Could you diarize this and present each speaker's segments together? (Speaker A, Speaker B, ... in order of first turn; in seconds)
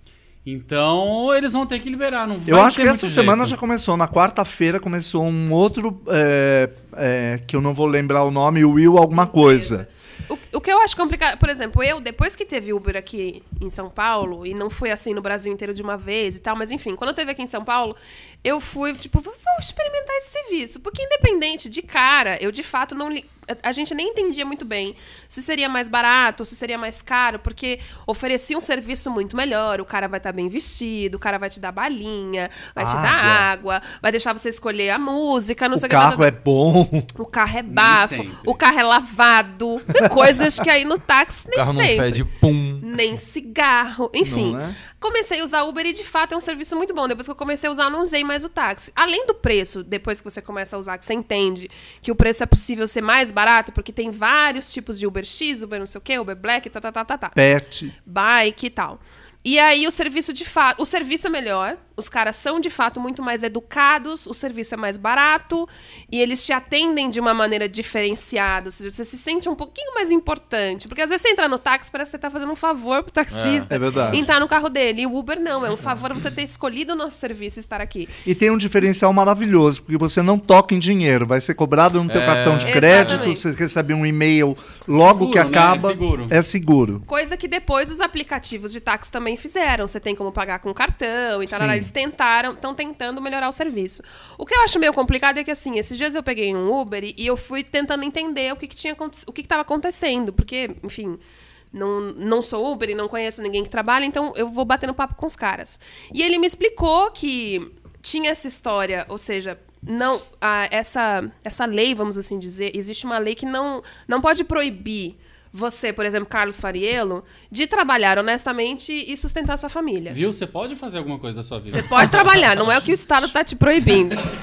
Speaker A: 0.4-3.5, 37.7-38.6, 84.9-86.4, 120.1-122.1
Speaker B: 2.5-9.8, 32.8-33.5, 35.7-37.1, 44.2-44.8, 57.3-57.9, 73.7-74.2, 78.2-87.0, 91.5-91.9
Speaker C: 9.1-36.3, 37.2-42.2, 42.8-57.4, 58.0-78.1, 82.6-83.4, 87.1-120.2, 121.7-124.3
Speaker D: 41.5-42.8, 73.3-74.2, 82.1-83.3